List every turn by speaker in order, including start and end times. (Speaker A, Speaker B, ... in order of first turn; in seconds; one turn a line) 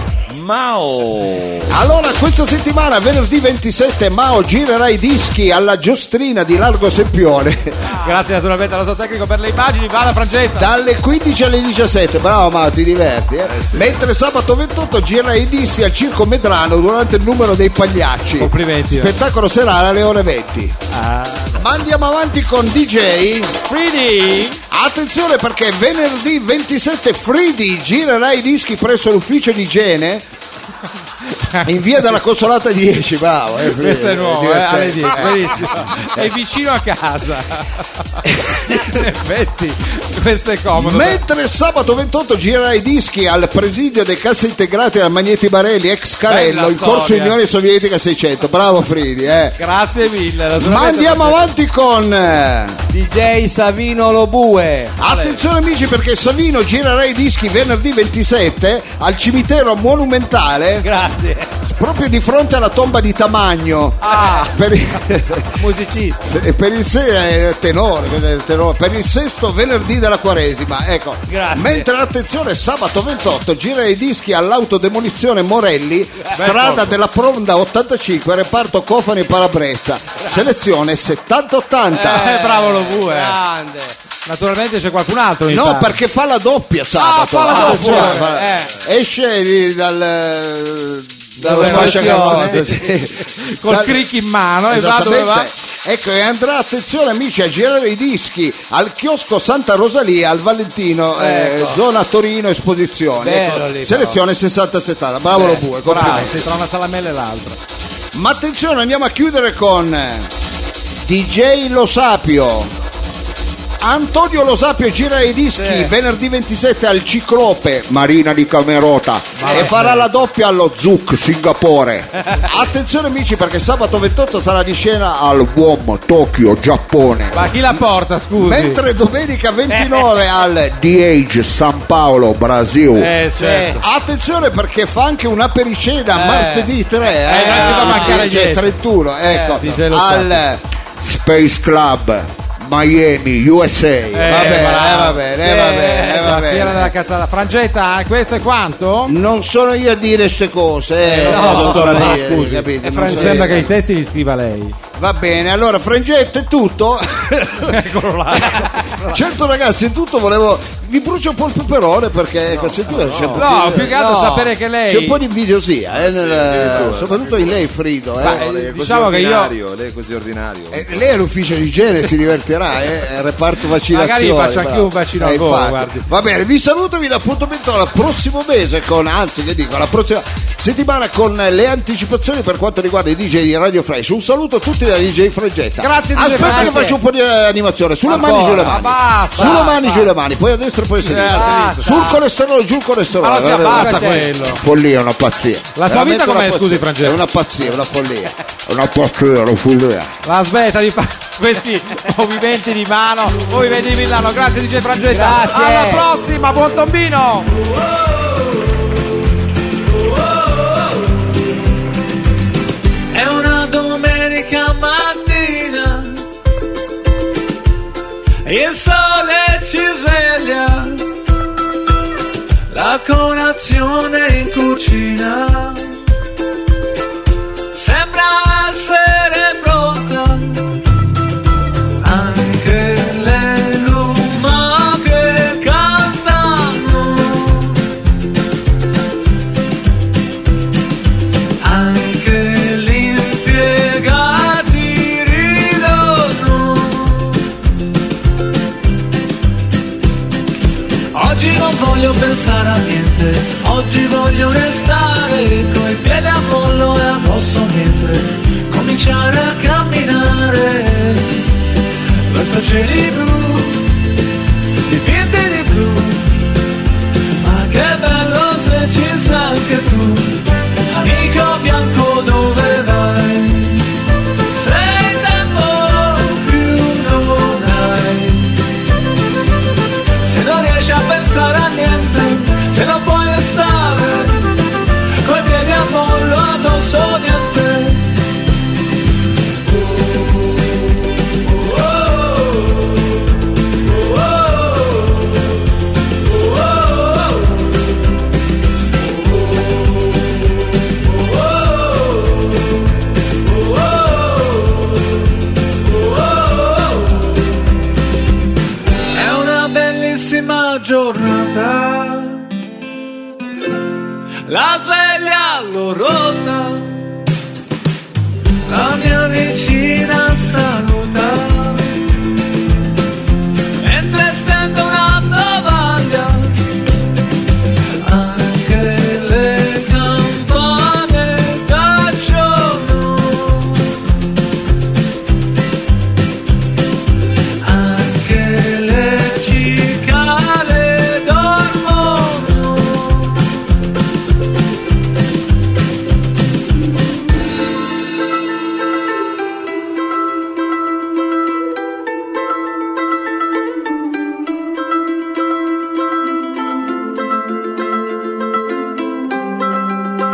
Speaker A: 0.3-1.8
Speaker B: 1.7-7.9
Speaker C: 7.9-10.7
Speaker B: 10.6-20.8
Speaker A: 13.4-13.9
Speaker C: 18.4-19.2
Speaker C: 20.9-21.6
Speaker B: 21.6-23.6
Speaker C: 23.7-24.6
Speaker B: 24.7-30.2
Speaker C: 31.3-31.6
Speaker B: 31.6-36.2
Speaker C: 33.7-41.2
Speaker B: 38.3-38.8
Speaker B: 40.7-49.6
Speaker C: 46.3-47.4
Speaker C: 49.6-51.5
Speaker B: 50.6-52.8
Speaker D: 52.9-55.0
Speaker B: 55.0-60.9
Speaker C: 55.0-55.4
Speaker D: 60.8-61.5
Speaker B: 61.6-65.6
Speaker C: 64.0-64.5
Speaker D: 65.6-66.4
Speaker B: 66.2-82.3
Speaker D: 71.3-71.8
Speaker C: 76.3-77.0
Speaker D: 81.9-84.0
Speaker C: 82.1-83.4
Speaker C: 84.3-86.0
Speaker B: 85.5-94.1
Speaker C: 87.0-88.3
Speaker D: 87.5-88.8
Speaker C: 91.4-95.5
Speaker D: 91.4-92.8
Speaker B: 94.7-106.5
Speaker D: 101.2-101.8
Speaker D: 103.2-104.2
Speaker C: 105.7-107.6
Speaker B: 108.1-110.3
Speaker B: 111.0-112.7
Speaker B: 113.8-127.8
Speaker D: 115.6-115.9
Speaker C: 119.4-120.1
Speaker D: 119.5-119.7
Speaker C: 127.3-128.8
Speaker B: 128.3-133.1
Speaker D: 129.7-130.1
Speaker C: 132.9-133.8
Speaker D: 133.3-133.8
Speaker B: 133.8-146.9
Speaker D: 136.1-136.7
Speaker C: 137.3-138.7
Speaker D: 137.3-138.3
Speaker D: 139.3-139.6
Speaker C: 139.6-140.4
Speaker C: 144.1-145.2
Speaker D: 144.3-144.8
Speaker D: 145.3-146.4
Speaker C: 146.2-149.2
Speaker B: 149.1-153.7
Speaker D: 151.1-153.7
Speaker C: 151.1-154.8
Speaker B: 154.9-164.0
Speaker C: 157.6-159.2
Speaker A: 162.5-163.5
Speaker C: 163.4-165.2
Speaker D: 163.7-164.5
Speaker B: 164.9-168.4
Speaker A: 165.9-167.7
Speaker A: 168.2-171.1
Speaker C: 168.2-169.6
Speaker B: 170.7-200.1
Speaker C: 173.9-176.1
Speaker C: 185.8-186.9
Speaker D: 186.3-186.9
Speaker C: 188.1-190.1
Speaker D: 189.4-189.7
Speaker C: 191.0-192.2
Speaker D: 191.3-191.8
Speaker C: 193.2-194.6
Speaker D: 193.7-194.3
Speaker C: 195.8-197.2
Speaker C: 200.2-207.5
Speaker D: 205.1-206.1
Speaker E: 213.1-216.2
Speaker E: 218.4-221.1
Speaker E: 222.7-226.0
Speaker E: 227.7-230.7
Speaker E: 232.0-237.8
Speaker E: 241.6-247.4
Speaker E: 251.1-261.4
Speaker E: 262.3-263.9
Speaker E: 264.9-266.5
Speaker E: 267.4-273.9
Speaker E: 274.5-278.6
Speaker E: 280.2-284.6
Speaker E: 285.2-288.1
Speaker E: 291.6-292.6
Speaker E: 309.1-312.4
Speaker E: 314.4-317.0
Speaker E: 318.7-322.0
Speaker E: 323.8-326.6
Speaker E: 328.0-334.0
Speaker E: 337.6-343.4